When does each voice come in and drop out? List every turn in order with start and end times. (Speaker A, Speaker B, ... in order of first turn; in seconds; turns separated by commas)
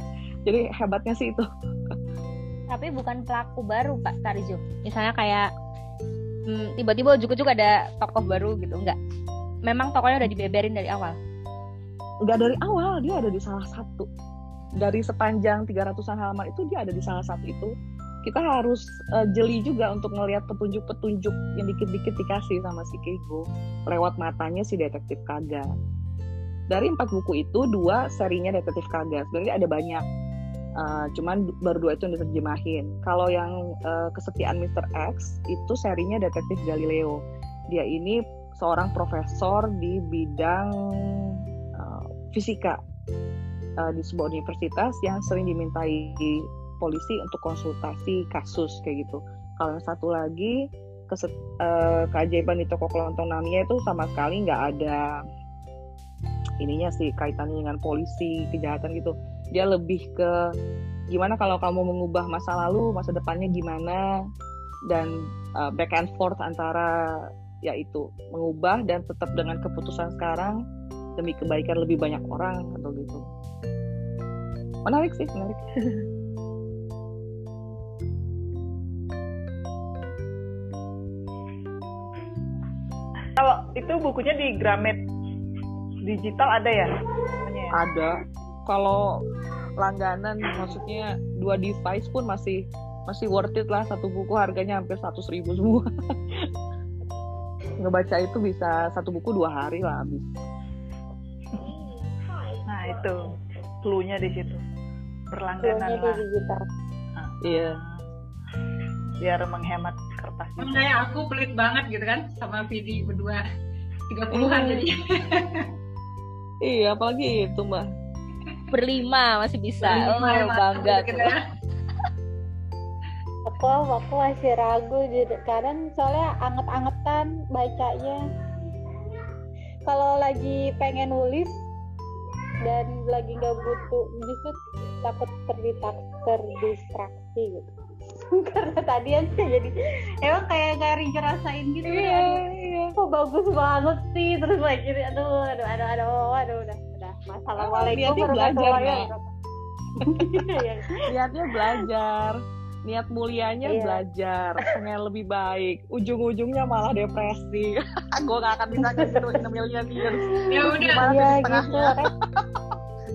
Speaker A: 0.5-1.4, Speaker B: 2.7-5.5, Speaker B: 6.5-9.0, Speaker B: 9.6-11.2, Speaker A: 12.2-14.1, Speaker A: 14.8-17.7, Speaker A: 18.2-25.7, Speaker A: 26.7-30.0, Speaker A: 30.8-37.2, Speaker A: 37.7-42.8, Speaker A: 43.8-50.5, Speaker A: 51.1-55.1, Speaker A: 56.6-60.3, Speaker A: 61.1-64.0, Speaker A: 64.9-70.5, Speaker A: 71.2-73.2, Speaker A: 74.8-75.6, Speaker C: 83.4-85.0, Speaker C: 86.0-87.8, Speaker A: 87.7-89.2, Speaker A: 89.8-95.8, Speaker A: 97.8-100.4, Speaker C: 102.7-103.3, Speaker C: 103.8-104.6, Speaker C: 105.3-106.2, Speaker D: 105.6-106.6, Speaker C: 107.2-108.0, Speaker A: 107.4-107.8, Speaker C: 109.2-110.9, Speaker E: 110.6-113.4, Speaker E: 114.1-115.6, Speaker A: 114.3-114.8, Speaker A: 116.6-117.8, Speaker B: 118.7-121.3, Speaker E: 119.8-121.4, Speaker D: 123.5-128.2, Speaker D: 129.8-131.5, Speaker D: 132.6-137.7, Speaker D: 138.4-142.4, Speaker A: 141.8-142.9, Speaker D: 143.0-149.2, Speaker A: 147.6-149.1, Speaker D: 150.0-151.0, Speaker A: 151.1-162.0, Speaker D: 153.7-154.0, Speaker D: 158.8-159.4, Speaker E: 160.5-161.0, Speaker D: 161.0-162.1